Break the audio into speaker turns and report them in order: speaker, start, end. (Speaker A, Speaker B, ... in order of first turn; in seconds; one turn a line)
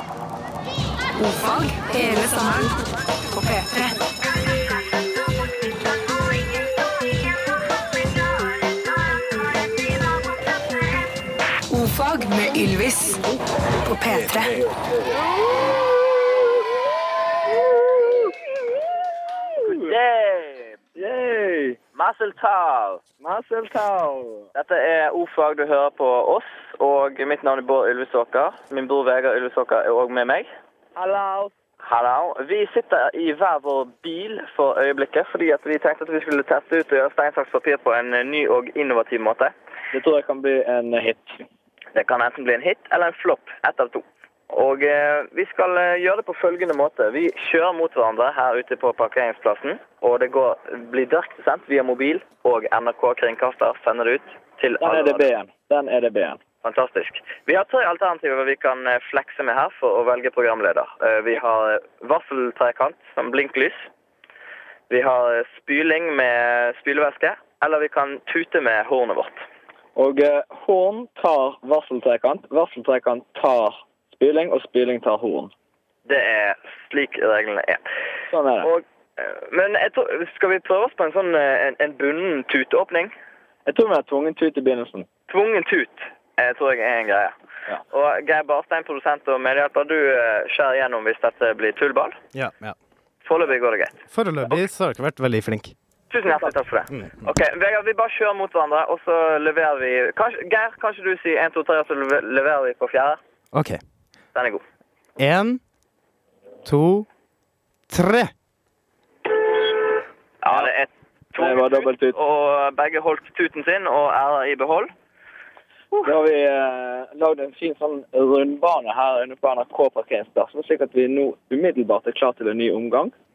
Speaker A: 1.2-2.7
Speaker A: 3.3-4.0
Speaker A: 11.7-13.3
Speaker A: 13.8-14.6
Speaker B: 19.6-19.9
Speaker C: 19.6-20.8
Speaker B: 20.9-21.8
Speaker C: 21.9-23.1
Speaker B: 23.2-24.5
Speaker C: 24.5-30.5
Speaker B: 30.9-31.5
Speaker C: 31.8-39.5
Speaker B: 39.9-41.4
Speaker C: 41.9-55.3
Speaker B: 54.8-56.4
Speaker C: 56.6-63.8
Speaker C: 64.9-69.4
Speaker B: 70.0-75.5
Speaker C: 76.0-77.8
Speaker B: 78.3-78.7
Speaker C: 78.6-83.1
Speaker B: 83.7-85.1
Speaker C: 85.3-87.3
Speaker C: 87.9-92.1
Speaker D: 92.3-92.7
Speaker C: 93.2-94.6
Speaker D: 94.1-95.7
Speaker C: 96.1-103.2
Speaker D: 103.5-103.8
Speaker C: 104.3-104.6
Speaker D: 105.2-105.6
Speaker D: 106.6-107.0
Speaker D: 107.9-108.3
Speaker C: 110.4-114.9
Speaker B: 111.3-112.2
Speaker B: 115.9-123.1